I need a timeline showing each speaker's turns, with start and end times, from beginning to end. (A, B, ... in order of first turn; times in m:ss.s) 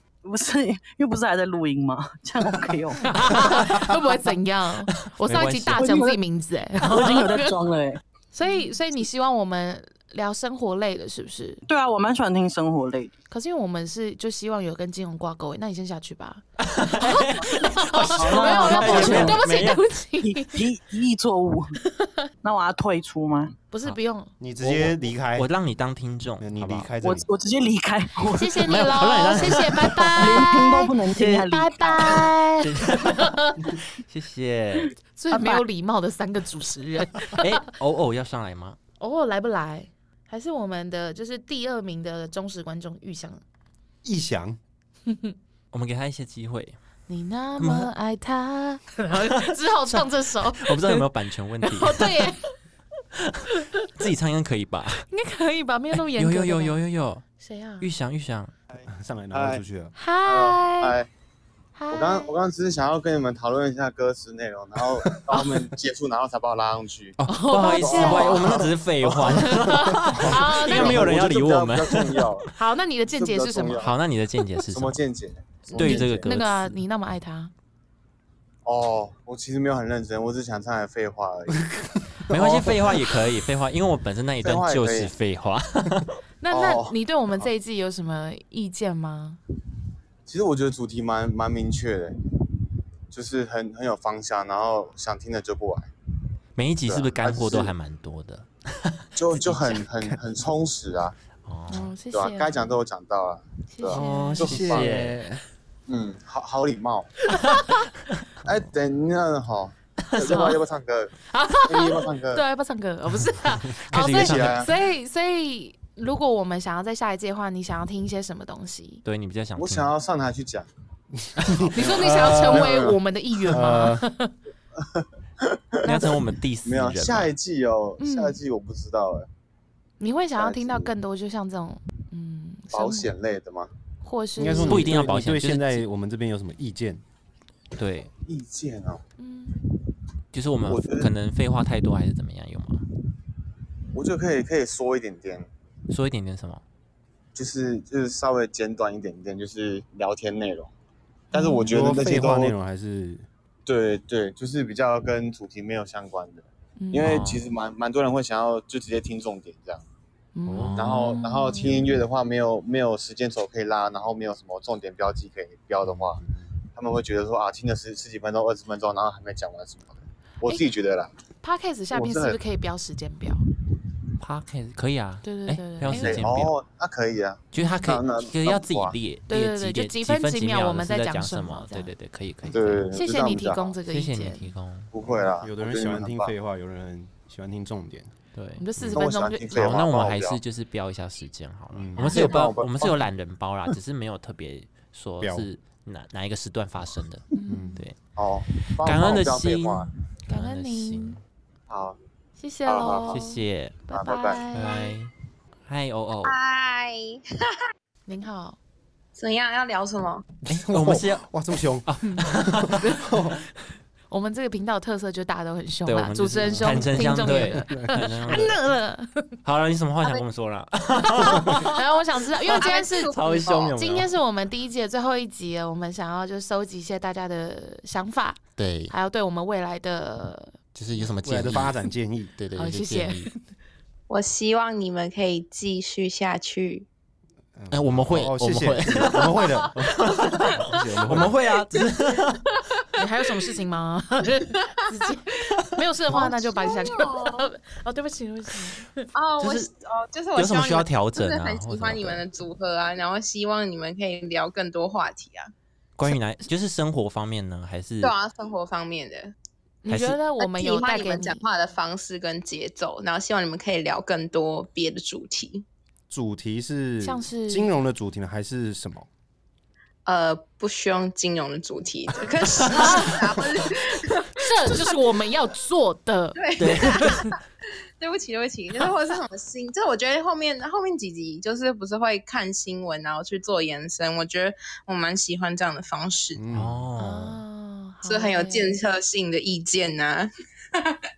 0:00.2-0:03.2 A
0:03.0-0:07.5 B
0:05.2-0:05.9 C
0:05.8-0:06.2 A
0:06.8-0:08.0 A
0:08.3-0:11.6 B
0:11.7-0:13.1 A
0:13.3-0:16.4 B
0:16.6-0:19.8 C
0:17.0-0:20.6 B
0:18.2-0:19.4 A
0:18.8-0:19.4 D
0:20.2-0:21.8 A
0:22.4-0:23.5 A
0:23.7-0:24.3 B
0:24.4-0:25.5 D
0:24.6-0:26.9 C
0:26.4-0:27.3 D
0:27.0-0:28.8 A
0:28.3-0:33.7 B
0:28.6-0:30.4 C
0:30.2-0:32.3 A
0:32.1-0:34.9 C
0:35.2-0:37.6 B
0:35.3-0:35.6 A
0:37.3-0:38.8 C
0:39.0-0:43.4 B
0:44.0-0:44.6 D
0:45.1-0:45.3 B
0:45.7-0:46.8 C
0:47.1-0:51.0 B
0:47.6-0:47.9 C
0:49.3-0:52.2 C
0:51.6-0:52.5 B
0:53.2-0:53.4 C
0:54.0-0:55.0 C
0:55.1-0:56.8 B
0:55.9-0:57.2 C
0:57.4-0:57.9 B
0:57.8-0:58.5 C
0:58.7-0:59.6 E
0:58.9-0:59.9 D
1:00.0-1:01.0 B
1:00.2-1:01.1 E
1:01.8-1:02.3 B
1:01.9-1:09.6 E
1:05.3-1:05.6 B
1:07.2-1:12.3 C
1:07.2-1:08.6 B
1:09.3-1:11.1 B
1:10.1-1:12.6 E
1:12.6-1:13.8 B
1:13.1-1:14.0 E
1:13.8-1:15.0 C
1:14.7-1:16.3 E
1:15.7-1:16.8 C
1:15.7-1:17.5 B
1:18.6-1:21.6 E
1:22.3-1:26.1 C
1:22.4-1:22.7 D
1:24.4-1:25.1 E
1:26.4-1:29.4 B
1:26.5-1:26.9 E
1:30.2-1:32.2 E
1:33.1-1:35.9 E
1:36.6-1:39.8 C
1:36.8-1:37.7 E
1:39.2-1:41.2 E
1:41.4-1:41.9 C
1:41.7-1:42.6 B
1:42.1-1:44.9 E
1:43.7-1:44.6 B
1:43.9-1:45.4 D
1:44.4-1:45.2 C
1:45.9-1:47.1 E
1:48.4-1:52.4 E
1:50.2-1:50.6 B
1:51.3-1:59.0 B
1:53.9-1:54.7 D
1:53.9-1:54.7 E
1:59.0-1:59.9 C
1:59.6-2:00.7 E
2:01.4-2:02.9 D
2:01.5-2:03.0 E
2:01.7-2:04.3 B
2:03.5-2:04.0 D
2:04.8-2:09.3 E
2:05.8-2:07.3 C
2:08.0-2:08.4 B
2:10.0-2:13.1 B
2:10.4-2:10.9 E
2:12.7-2:13.7 E
2:14.0-2:15.0 B
2:14.4-2:17.0 D
2:14.7-2:15.9 C
2:17.8-2:18.1 C
2:18.2-2:19.0 E
2:19.2-2:19.6 B
2:20.3-2:22.8 C
2:20.7-2:21.1 E
2:23.9-2:25.5 E
2:25.9-2:26.6 C
2:27.3-2:30.7 E
2:31.3-2:31.7 B
2:31.3-2:32.5 E
2:31.7-2:33.3 D
2:33.6-2:39.8 E
2:36.8-2:37.1 B
2:37.0-2:37.4 C
2:40.4-2:41.8 B
2:40.5-2:41.0 C
2:40.8-2:51.1 E
2:45.8-2:46.5 D
2:51.4-2:53.4 B
2:51.9-2:52.4 E
2:54.2-2:56.6 C
2:55.2-2:56.2 B
2:55.8-2:59.0 E
2:57.5-3:02.9 C
2:59.3-3:01.9 B
3:02.5-3:03.8 E
3:02.9-3:04.5 B
3:03.9-3:05.3 C
3:04.9-3:06.3 E
3:05.4-3:08.1 D
3:08.3-3:08.6 C
3:08.6-3:09.7 B
3:08.9-3:10.4 E
3:09.5-3:18.0 C
3:11.7-3:12.4 D
3:12.0-3:12.2 B
3:12.0-3:13.0 E
3:15.2-3:15.5 D
3:17.4-3:17.8 B
3:17.5-3:17.8 D
3:18.1-3:19.9 E
3:18.5-3:21.2 C
3:20.3-3:21.2 B
3:21.7-3:22.0 E
3:22.4-3:25.0 B
3:22.6-3:23.2 E
3:23.1-3:23.8 C
3:23.9-3:24.5 E
3:24.5-3:25.1 C
3:25.7-3:26.3 C
3:26.2-3:27.5 F
3:28.1-3:28.6 B
3:29.1-3:30.2 F
3:30.4-3:31.3 C
3:30.5-3:33.4 D
3:31.8-3:33.0 C
3:34.1-3:39.4 B
3:35.8-3:38.5 C
3:36.4-3:38.5 D
3:39.4-3:41.8 C
3:41.1-3:51.1 B
3:42.4-3:44.1 C
3:42.6-3:43.8 F
3:48.6-3:48.9 C
3:50.7-3:51.8 C
3:51.2-3:52.3 D
3:52.4-3:53.3 C
3:52.5-3:53.4 B
3:54.1-3:56.9 F
3:57.6-3:59.9 D
3:57.7-4:02.5 C
4:00.5-4:01.3 D
4:03.0-4:09.1 B
4:06.1-4:07.5 F
4:09.1-4:15.5 F
4:09.4-4:09.7 C
4:10.3-4:12.2 C
4:16.0-4:18.1 C
4:18.0-4:19.3 F
4:19.8-4:21.4 B
4:19.9-4:20.2 C
4:20.4-4:25.6 F
4:26.1-4:29.1 D
4:27.0-4:27.7 B
4:30.0-4:35.1 F
4:32.7-4:33.2 B
4:34.4-4:37.3 B
4:36.3-4:37.3 F
4:36.6-4:37.1 C
4:38.0-4:46.4 F
4:46.4-4:46.8 D
4:46.5-4:47.4 C
4:47.0-4:48.7 B
4:48.0-4:50.3 F